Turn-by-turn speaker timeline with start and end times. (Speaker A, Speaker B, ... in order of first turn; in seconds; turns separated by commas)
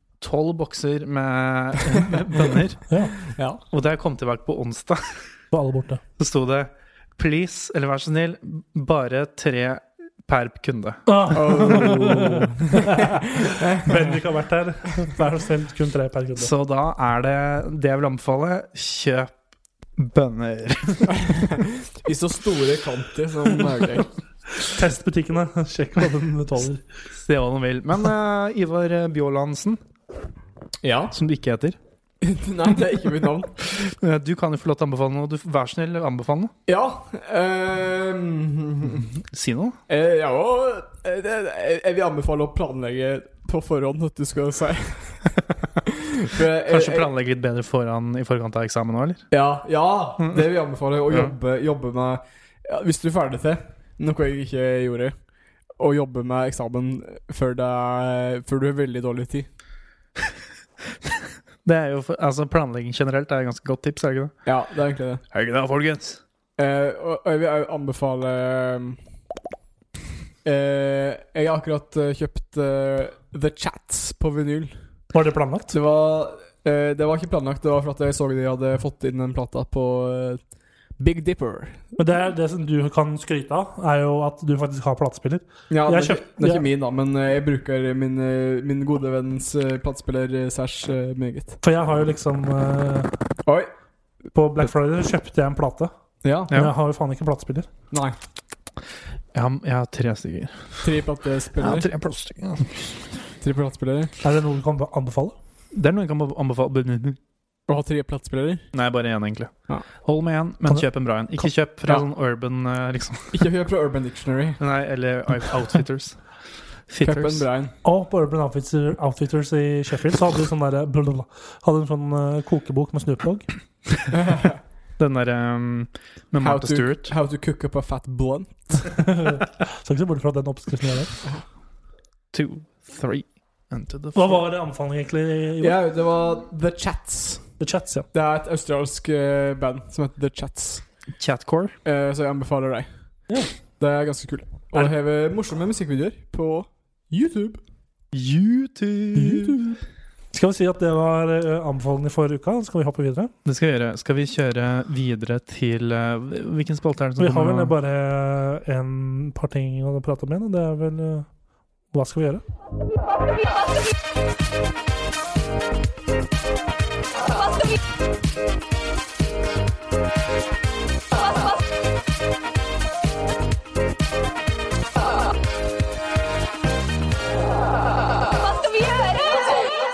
Speaker A: 0.2-2.8, Speaker B: 2.9-3.1, Speaker C: 3.3-3.6, Speaker A: 3.7-5.2, Speaker B: 5.5-6.0, Speaker A: 6.2-11.9, Speaker B: 11.1-13.2, Speaker C: 11.3-14.1, Speaker B: 13.8-16.5, Speaker A: 16.4-19.3, Speaker A: 20.0-21.4, Speaker C: 21.1-24.1, Speaker B: 24.6-26.8, Speaker A: 27.1-29.8, Speaker C: 30.8-31.1, Speaker A: 31.1-31.8, Speaker C: 32.2-33.6, Speaker A: 33.7-36.5, Speaker C: 36.7-39.1, Speaker A: 39.3-39.8, Speaker C: 39.9-47.1, Speaker A: 46.7-49.2, Speaker C: 49.3-55.1, Speaker C: 55.8-59.5, Speaker A: 61.6-64.4, Speaker C: 64.4-65.2, Speaker A: 65.3-66.2, Speaker C: 66.6-69.0, Speaker C: 70.4-74.8, Speaker B: 75.1-75.7, Speaker C: 75.7-80.4, Speaker C: 81.0-81.8, Speaker B: 82.0-86.6, Speaker C: 85.7-91.6, Speaker B: 91.6-93.1, Speaker C: 93.4-93.7, Speaker B: 94.3-95.9, Speaker C: 96.2-96.5, Speaker B: 96.5-97.7, Speaker C: 97.9-98.2, Speaker A: 99.3-100.9, Speaker C: 100.8-101.9, Speaker A: 101.6-102.9, Speaker C: 103.4-104.2, Speaker B: 104.2-105.3, Speaker A: 105.7-107.2, Speaker C: 107.7-108.7, Speaker A: 108.7-109.5, Speaker A: 110.0-113.5, Speaker C: 113.3-114.6, Speaker A: 114.6-116.2, Speaker A: 116.9-117.5, Speaker C: 117.0-117.7, Speaker B: 117.8-123.5, Speaker C: 124.1-124.6, Speaker A: 125.0-127.1, Speaker C: 126.4-128.9, Speaker B: 129.0-131.1, Speaker A: 132.3-134.4, Speaker B: 134.1-135.8, Speaker C: 135.6-137.5, Speaker B: 137.6-138.1, Speaker C: 138.1-140.8, Speaker A: 141.2-141.8, Speaker C: 141.8-142.9, Speaker C: 143.8-147.6, Speaker A: 148.1-149.8, Speaker C: 149.2-149.6, Speaker B: 150.3-153.3, Speaker A: 153.4-157.7, Speaker B: 157.2-161.3, Speaker B: 161.9-162.4